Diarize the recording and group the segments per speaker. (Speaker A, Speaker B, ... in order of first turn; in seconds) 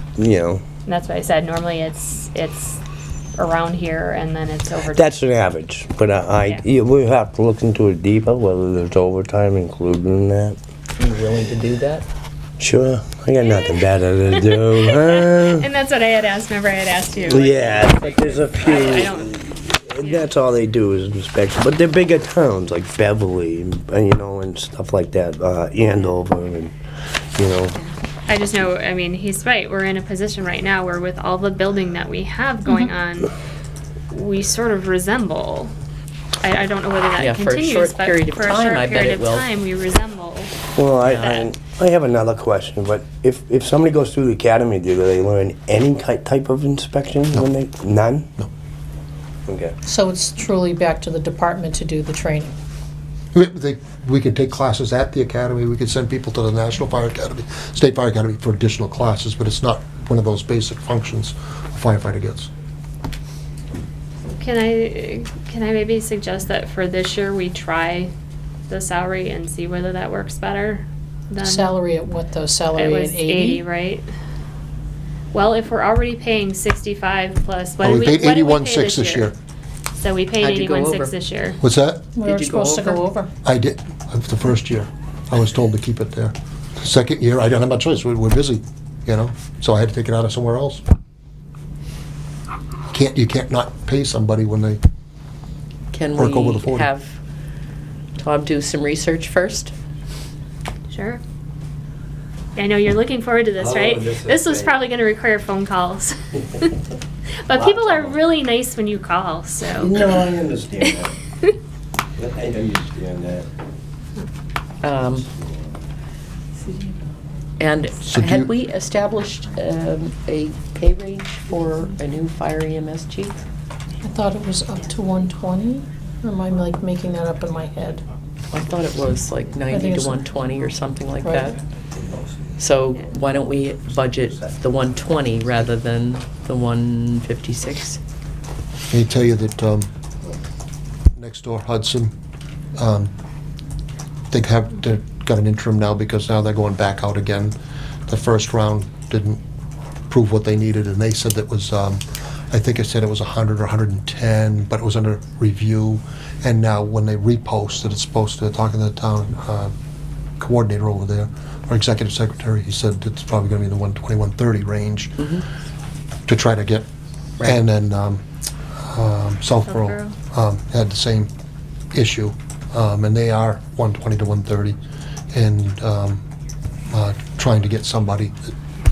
Speaker A: 0.2-0.6, 4.8-10.6, 12.6-15.7, 17.3-26.7, 27.4-27.8, 40.8-48.3, 49.5-49.8, 103.6-104.7, 107.6-108.1, 109.8-111.1, 112.2-113.5
Speaker B: 0.9-2.8, 3.4-5.2, 13.4-19.4, 20.0-20.3, 28.3-33.3, 34.1-35.7, 36.4-41.5, 64.4-68.1, 68.7-71.8, 72.8-74.1, 75.3-79.3, 80.0-81.6, 100.9-101.2, 102.6-106.7, 107.4-110.0, 169.7-170.2
Speaker C: 11.0-12.1, 37.2-39.5, 41.0-41.3, 80.4-81.1, 82.2-83.0, 95.9-97.2, 98.2-99.7, 114.8-115.3, 117.6-123.5, 128.5-131.6, 132.6-138.0, 165.2-165.4
Speaker D: 49.9-52.5, 71.4-73.6, 82.2-83.3, 124.0-128.0, 129.7-130.2, 131.2-131.6
Speaker E: 53.3-62.5, 77.8-79.3, 81.6-82.1, 83.4-90.8, 92.9-94.8, 96.2-96.9, 118.0-118.5, 138.9-139.9, 141.2-142.1, 142.8-143.1, 144.3-149.4, 150.1-159.7, 160.4-165.2, 166.3-166.9, 167.4-168.2, 168.9-171.3, 171.9-174.8, 175.3-176.2, 176.9-178.5